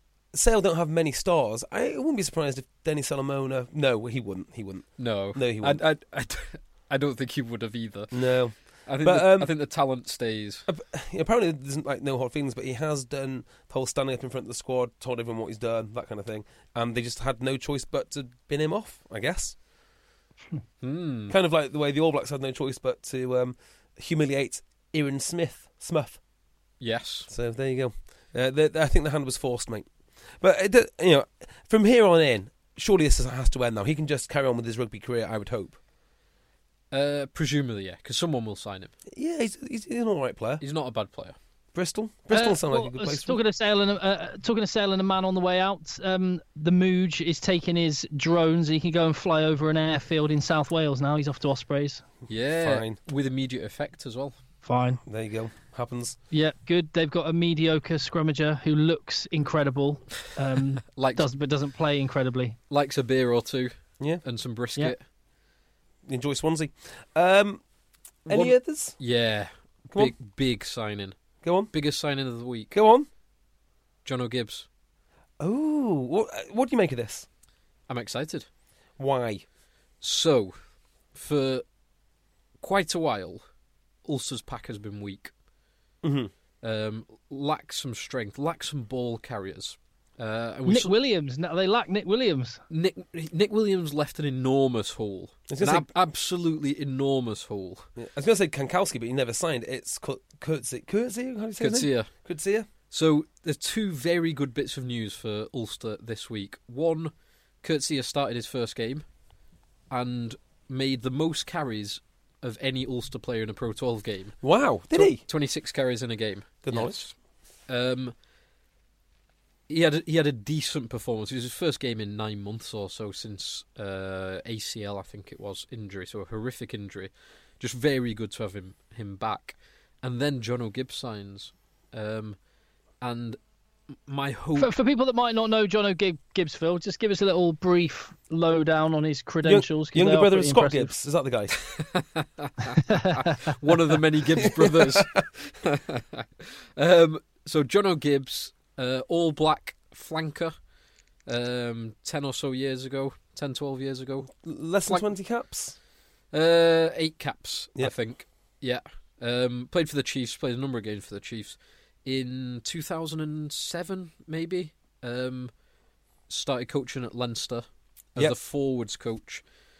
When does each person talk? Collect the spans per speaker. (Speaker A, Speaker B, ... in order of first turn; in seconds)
Speaker A: 0.3-5.8, 8.1-9.5, 10.7-19.6, 21.3-26.2, 27.3-29.9, 30.4-35.8, 39.1-40.6, 41.7-43.4, 52.6-53.0, 55.0-56.2, 66.1-67.6, 68.2-69.0, 71.4-71.7, 72.7-73.1, 75.4-77.2, 79.0-79.4, 86.0-86.3, 95.5-95.8, 98.0-102.7, 114.4-115.2, 116.6-117.0, 139.4-141.6, 144.4-145.1, 154.3-155.7
Speaker B: 5.0-10.7, 20.8-21.3, 26.8-27.3, 36.9-38.9, 40.6-41.4, 52.3-54.3, 60.9-61.2, 62.7-65.0, 68.3-71.2, 71.7-72.7, 74.0-74.7, 77.9-78.5, 80.0-80.5, 81.1-81.6, 82.6-83.4, 84.0-85.3, 86.6-90.9, 92.7-97.9, 101.6-102.1, 102.9-107.1, 107.6-109.0, 109.9-114.4, 114.9-117.1, 117.7-118.1, 119.7-132.4, 133.0-133.4, 134.1-134.7, 141.7-150.5, 151.3-154.3, 156.3-165.5, 166.3-169.4
Speaker C: 42.3-52.0, 54.6-55.0, 56.3-62.6, 90.7-92.6, 134.6-140.9, 142.9-143.2